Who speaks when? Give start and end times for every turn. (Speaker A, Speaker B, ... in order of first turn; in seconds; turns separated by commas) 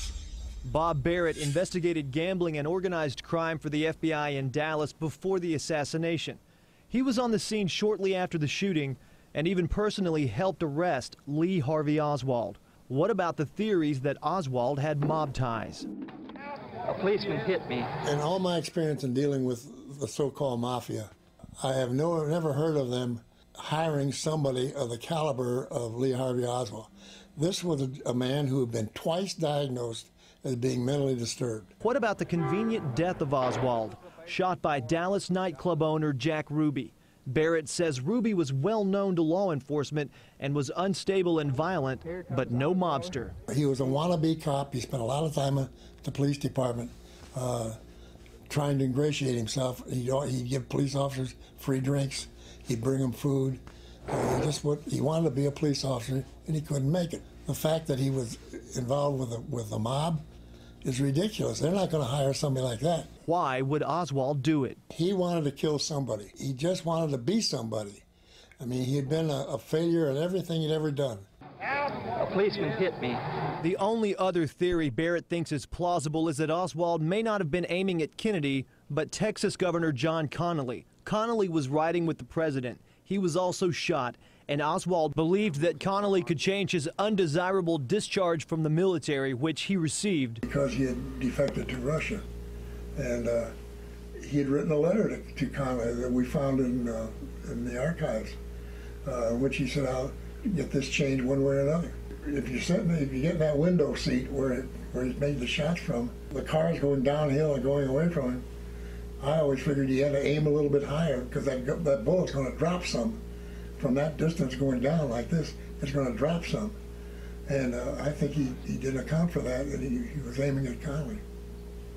Speaker A: 0.6-15.9, Speaker B: 16.9-17.9, Speaker C: 18.0-31.7, Speaker A: 31.8-43.3, Speaker C: 43.5-47.8, Speaker C: 48.5-60.2, Speaker C: 60.8-63.1, Speaker A: 63.2-64.8, Speaker C: 64.9-68.0, Speaker C: 68.6-71.3, Speaker B: 72.2-73.2, Speaker A: 73.6-90.4, Speaker C: 90.4-92.2, Speaker C: 93.0-93.5, Speaker C: 94.2-98.4, Speaker C: 99.0-108.4, Speaker C: 109.2-113.2, Speaker C: 113.8-116.8, Speaker C: 117.5-121.2